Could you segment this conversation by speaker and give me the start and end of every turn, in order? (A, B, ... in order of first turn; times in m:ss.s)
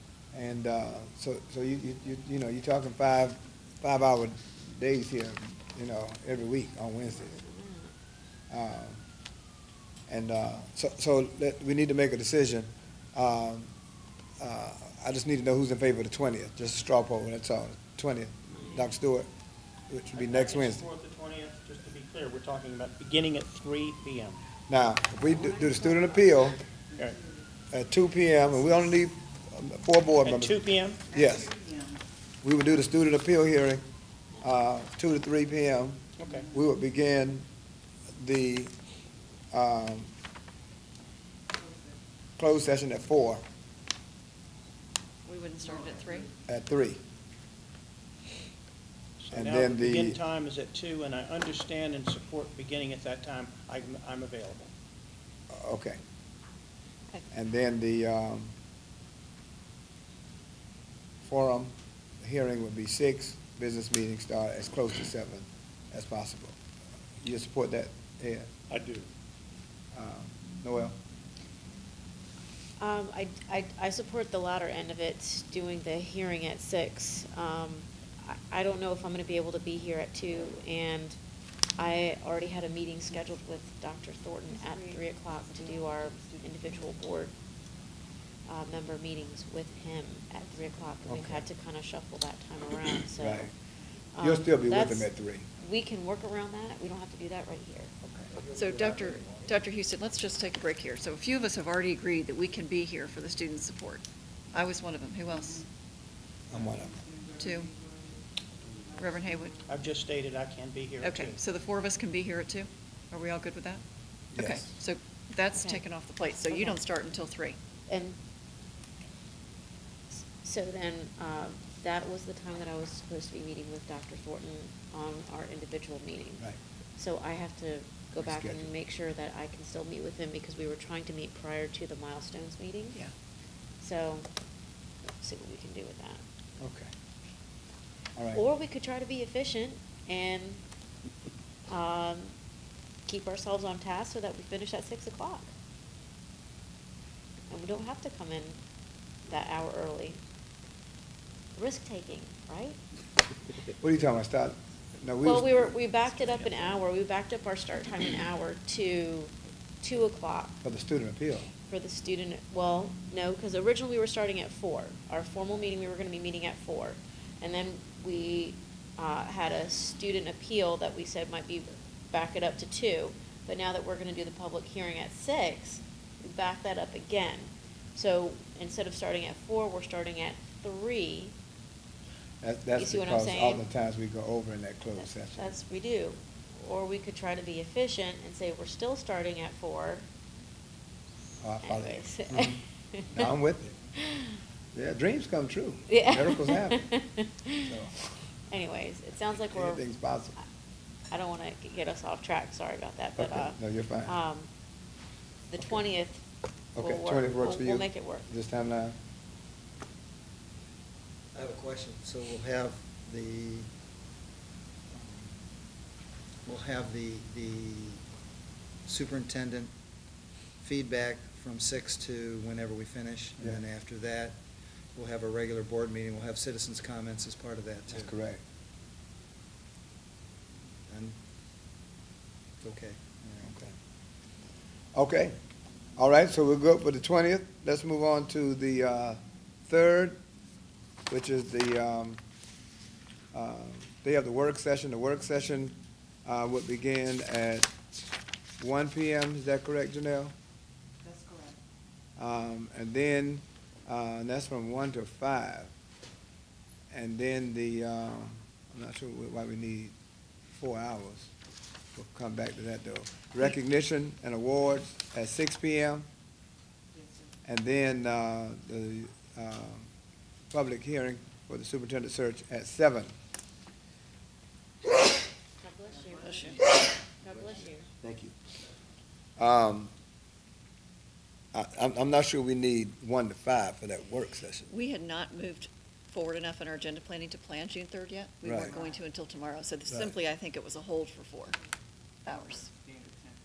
0:00.3-0:07.4 A
0:07.1-0:07.9 B
0:08.5-0:09.0 A
0:10.1-0:13.7 A
0:14.4-0:19.3 A
0:19.9-0:20.8 A
0:20.1-0:24.4 C
0:24.7-0:26.6 A
0:27.7-0:31.5 A
0:30.2-0:31.0 C
0:32.4-0:33.8 A
0:34.4-0:37.5 A
0:36.2-0:36.5 C
0:38.2-0:38.7 A
0:39.5-0:40.1 A
0:42.4-0:43.4 A
0:45.2-0:46.3 D
0:46.4-0:47.0 A
0:49.2-0:54.7 C
0:49.3-0:50.2 A
0:55.5-0:56.0 A
0:57.3-0:58.5 A
1:01.2-1:06.6 A
1:07.2-1:08.5 A
1:08.7-1:09.0 C
1:09.9-1:11.0 A
1:12.8-1:21.2 B
1:21.8-1:27.3 B
1:28.4-1:33.5 B
1:31.0-1:31.4 A
1:33.2-1:33.5 A
1:34.1-1:35.1 B
1:34.2-1:35.5 A
1:35.6-1:37.9 B
1:38.0-1:38.3 A
1:38.3-1:39.4 E
1:38.5-1:45.7 D
1:46.5-1:47.0 A
1:47.4-1:47.7 D
1:49.0-1:49.6 D
1:49.7-1:51.4 C
1:51.0-1:53.8 D
1:54.3-1:54.7 A
1:54.3-1:57.6 D
1:55.5-1:55.8 B
1:56.5-1:56.8 B
1:57.9-1:58.2 B
2:00.2-2:13.0 B
2:08.2-2:08.7 A
2:13.8-2:14.3 B
2:15.2-2:16.2 B
2:16.6-2:16.9 A
2:18.2-2:18.4 A
2:18.3-2:20.6 B
2:21.7-2:22.3 B
2:23.1-2:25.5 B
2:27.5-2:28.6 B
2:29.3-2:30.2 B
2:31.6-2:32.8 B
2:33.8-2:36.7 A
2:35.2-2:40.6 B
2:40.6-2:41.5 A
2:41.7-3:01.3 B
3:02.4-3:05.5 A
3:02.8-3:03.6 B
3:05.0-3:10.0 B
3:11.4-3:12.6 A
3:11.6-3:13.3 B
3:13.1-3:13.8 A
3:14.0-3:14.4 B
3:14.7-3:16.8 A
3:15.9-3:17.7 B
3:17.6-3:17.9 A
3:18.5-3:19.8 B
3:19.5-3:20.4 A
3:21.1-3:24.5 B
3:23.2-3:24.2 A
3:25.5-3:26.2 B
3:26.8-3:29.0 A
3:26.8-3:28.3 B
3:31.3-3:33.7 E
3:34.9-3:35.4 E
3:36.4-3:38.0 E
3:38.8-3:39.7 E
3:40.6-3:44.4 E
3:44.9-3:48.1 E
3:47.9-3:48.4 A
3:50.9-3:51.2 E
3:52.6-3:53.5 E
3:53.4-3:53.7 A
3:54.9-3:55.4 A
3:56.0-4:00.2 A
4:01.1-4:02.2 A
4:03.3-4:07.7 A
4:08.6-4:10.3 A
4:12.2-4:15.7 A
4:16.9-4:19.9 A
4:20.5-4:21.3 A
4:21.9-4:26.1 A
4:27.4-4:29.9 A
4:30.5-4:33.1 A
4:35.6-4:36.6 B
4:37.1-4:37.9 B
4:38.0-4:38.3 A
4:39.4-4:39.9 A
4:41.5-4:44.7 A
4:44.7-4:51.6 D
4:48.4-4:48.7 A
4:52.2-4:52.7 D